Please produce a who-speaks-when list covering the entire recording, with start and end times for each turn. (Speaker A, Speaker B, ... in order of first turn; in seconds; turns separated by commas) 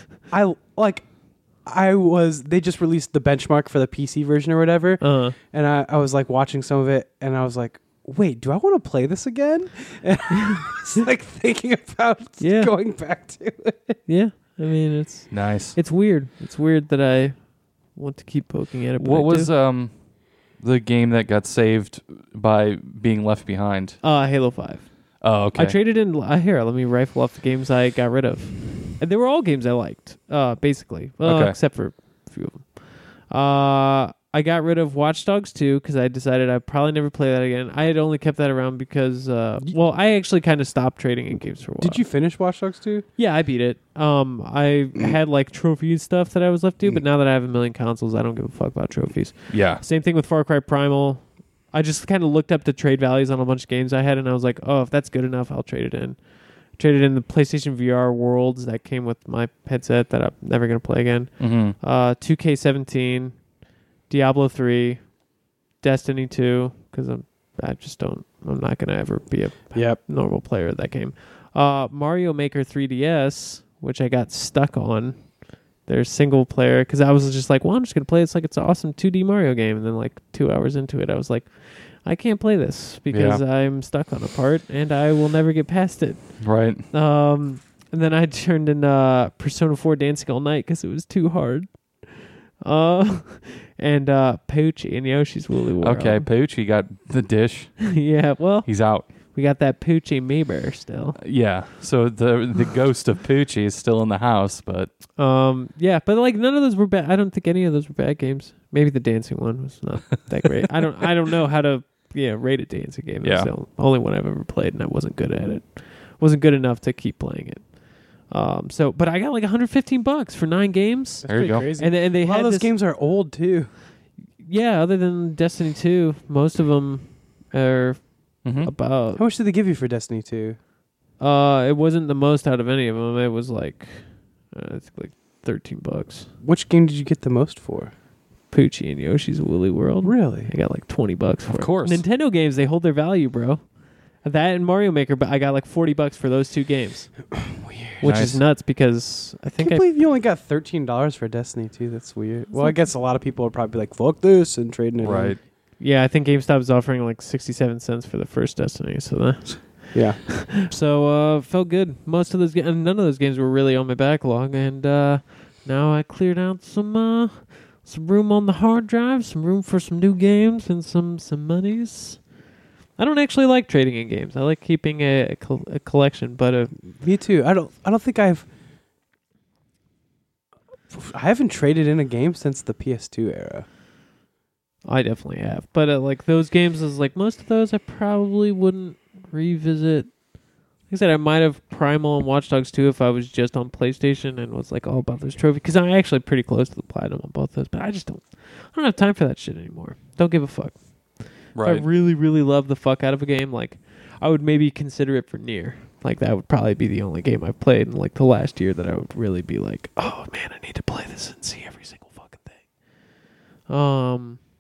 Speaker A: 0.3-1.1, Speaker A: 1.6-14.0, Speaker B: 5.0-5.3, Speaker B: 12.4-12.7, Speaker B: 14.1-19.5, Speaker C: 15.3-15.8, Speaker C: 19.0-19.9, Speaker C: 20.6-24.0, Speaker B: 24.0-42.0, Speaker C: 25.2-25.8, Speaker C: 31.2-31.6, Speaker A: 41.8-43.0, Speaker B: 43.2-63.4, Speaker C: 49.5-49.8, Speaker C: 61.4-61.8, Speaker B: 64.1-65.1, Speaker B: 65.8-96.3, Speaker A: 69.7-70.0, Speaker C: 83.1-83.4, Speaker C: 86.4-86.8, Speaker C: 95.8-98.1, Speaker B: 97.9-101.2, Speaker C: 98.6-99.0, Speaker C: 101.2-104.9, Speaker B: 105.2-122.7, Speaker C: 113.2-113.5, Speaker A: 121.2-123.7, Speaker C: 121.3-121.7, Speaker B: 124.4-129.2, Speaker C: 128.4-128.7, Speaker A: 129.2-130.6, Speaker B: 131.2-136.3, Speaker A: 136.4-137.9, Speaker B: 138.5-143.7, Speaker A: 140.0-140.5, Speaker C: 141.5-142.0, Speaker B: 144.2-147.3, Speaker A: 147.3-148.0, Speaker B: 148.0-149.8, Speaker C: 148.0-148.4, Speaker A: 149.6-155.4, Speaker B: 152.5-152.8, Speaker C: 155.0-155.4, Speaker B: 155.8-172.2, Speaker A: 159.9-160.3, Speaker B: 173.0-176.7, Speaker A: 176.9-178.5, Speaker A: 180.9-183.7, Speaker B: 184.8-190.1, Speaker B: 190.9-212.6, Speaker C: 201.5-201.8, Speaker B: 213.7-214.4